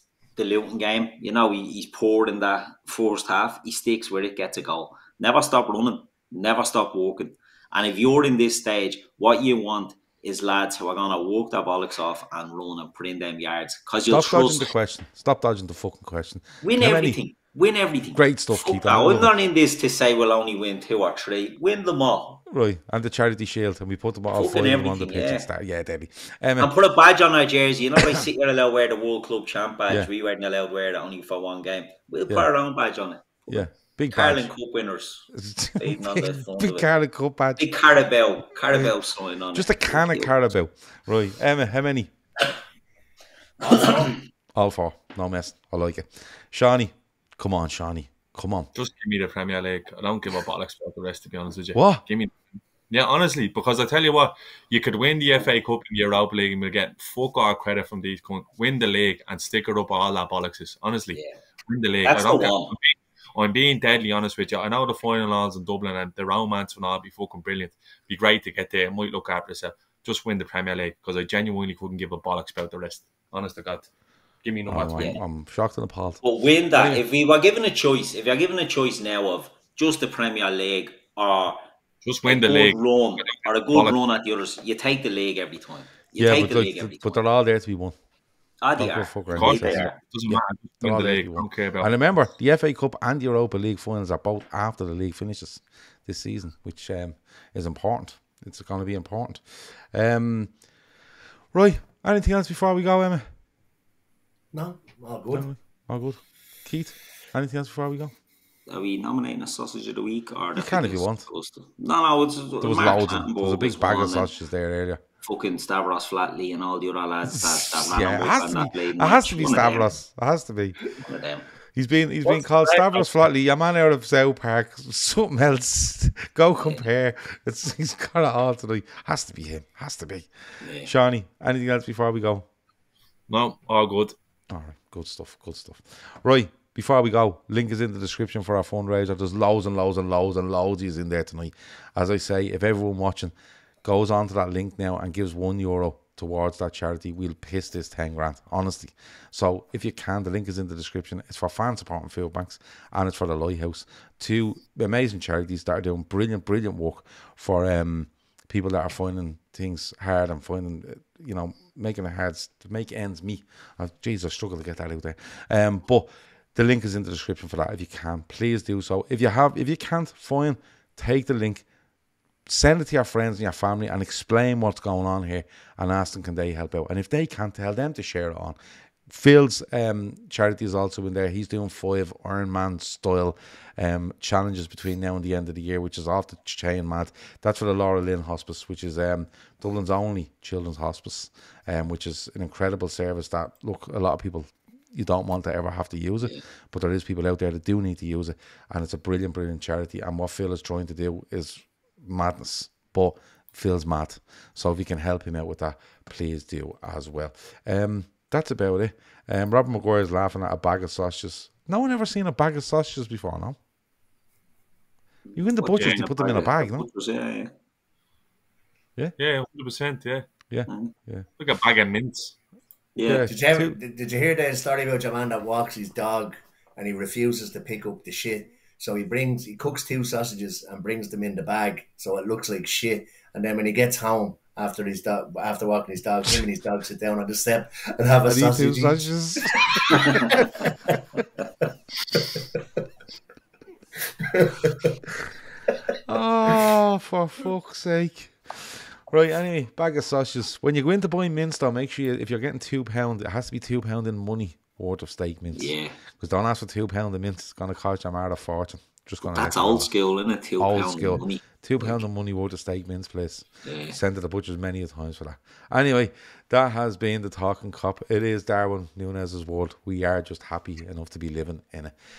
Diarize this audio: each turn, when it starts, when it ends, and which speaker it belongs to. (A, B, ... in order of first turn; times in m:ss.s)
0:00.4-0:14.7 A
0:14.1-0:17.2 B
0:16.6-0:22.4 A
0:18.1-0:19.3 B
0:22.5-0:26.7 B
0:24.3-0:25.5 A
0:26.6-0:35.3 A
0:28.0-0:28.3 B
0:33.5-0:34.5 B
0:35.3-0:37.7 B
0:35.8-0:36.9 A
0:37.6-0:40.4 A
0:38.7-0:38.9 B
0:39.5-0:42.1 B
0:44.6-0:48.7 B
0:48.8-1:13.9 C
0:51.7-0:52.0 B
1:02.1-1:02.8 A
1:14.4-1:15.2 C
1:14.7-1:17.0 B
1:15.0-1:15.2 A
1:16.2-1:21.6 A
1:22.0-1:24.0 C
1:22.2-1:27.2 A
1:26.2-1:28.0 B
1:28.6-1:30.0 A
1:28.8-1:40.5 B
1:29.3-1:31.9 C
1:41.5-1:43.2 B
1:44.5-1:45.5 D
1:45.3-1:48.1 B
1:48.7-1:54.3 A
1:50.6-1:51.3 B
1:52.6-1:55.0 B
1:55.2-1:59.9 A
1:57.2-2:00.8 B
2:01.0-2:01.5 A
2:01.8-2:12.5 B
2:02.2-2:03.2 C
2:10.6-2:10.9 A
2:13.3-2:14.2 C
2:14.5-2:23.3 B
2:23.8-2:51.6 B
2:52.5-2:58.6 B
2:59.1-3:33.6 B
3:35.3-3:37.5 A
3:35.4-3:36.9 B
3:35.6-3:36.0 C
3:39.2-3:40.3 C
3:40.5-3:41.2 B
3:40.7-3:40.9 A
3:41.4-3:42.4 C
3:43.0-3:43.3 A
3:43.1-3:43.8 B
3:43.1-3:59.0 D
3:58.2-4:00.5 B
3:59.8-4:01.0 D
4:02.2-4:02.4 D
4:04.2-4:05.0 D
4:06.1-4:19.9 B
4:15.6-4:16.0 A
4:19.3-4:22.0 A
4:20.6-4:32.0 B
4:23.6-4:24.0 A